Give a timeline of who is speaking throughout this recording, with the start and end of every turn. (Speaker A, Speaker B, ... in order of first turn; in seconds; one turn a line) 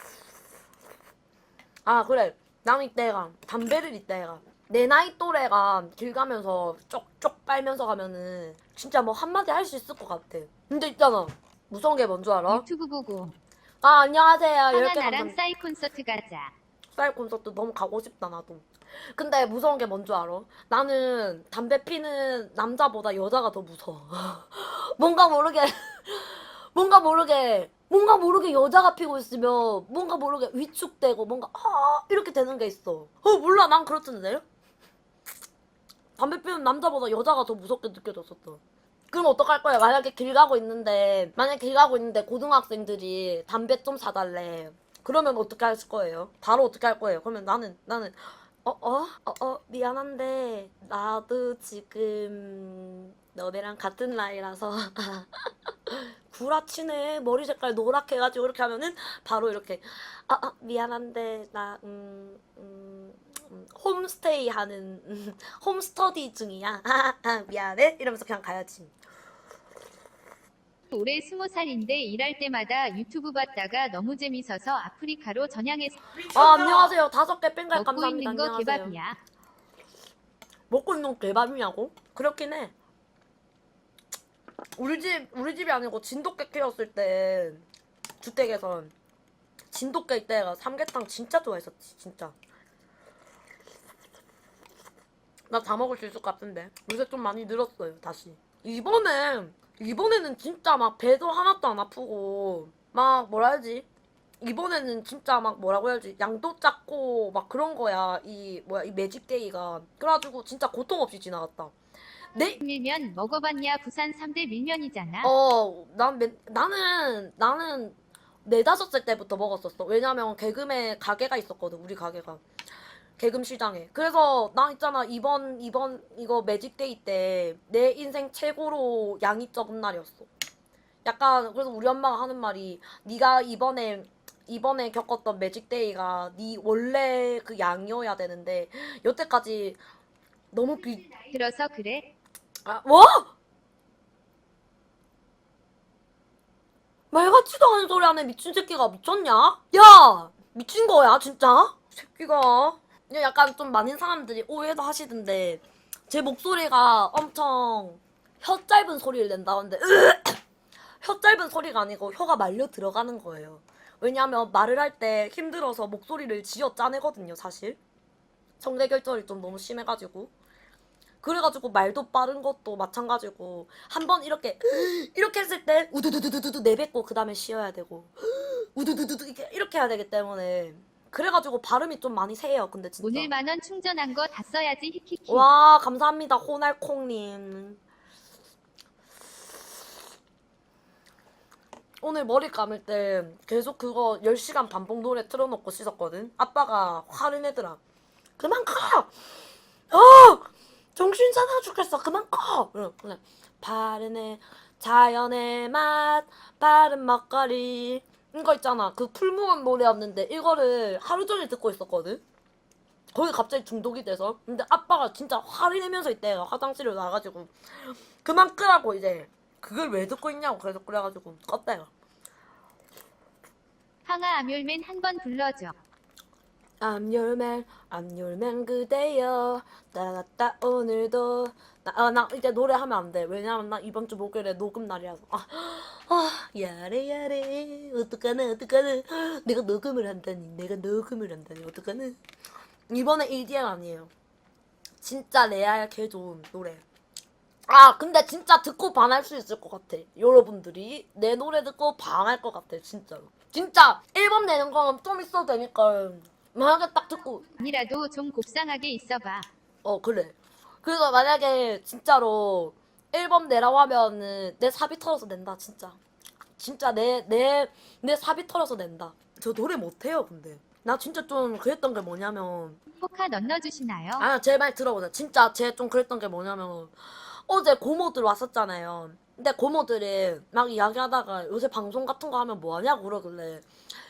Speaker A: 1.9-12.7
Speaker B: 12.5-13.4
Speaker A: 13.8-15.4
Speaker B: 14.7-16.5
Speaker A: 16.9-34.4
Speaker A: 36.2-68.9
Speaker B: 70.9-76.9
Speaker A: 76.3-79.0
Speaker B: 77.7-79.2
Speaker A: 80.7-82.7
Speaker A: 84.8-87.7
Speaker A: 88.2-88.9
Speaker A: 89.7-92.3
Speaker A: 95.5-103.9
Speaker A: 104.4-111.7
Speaker A: 112.3-112.6
Speaker B: 112.6-115.3
Speaker A: 115.2-122.4
Speaker A: 123.2-130.3
Speaker A: 131.1-139.8
Speaker A: 140.5-141.1
Speaker B: 141.1-142.1
Speaker A: 142.7-143.3
Speaker A: 147.1-160.4
Speaker A: 161.0-167.8
Speaker A: 168.6-170.3
Speaker A: 171.2-183.3
Speaker B: 183.0-185.5
Speaker A: 185.3-187.8
Speaker A: 192.0-197.8
Speaker A: 198.4-199.1
Speaker A: 199.9-212.2
Speaker A: 213.1-221.9
Speaker B: 224.1-225.8
Speaker A: 226.8-242.2
Speaker A: 242.9-244.1
Speaker A: 245.0-246.8
Speaker A: 247.7-257.4
Speaker B: 257.5-259.5
Speaker A: 259.8-266.0
Speaker A: 266.6-272.8
Speaker B: 272.9-274.3
Speaker A: 274.2-283.6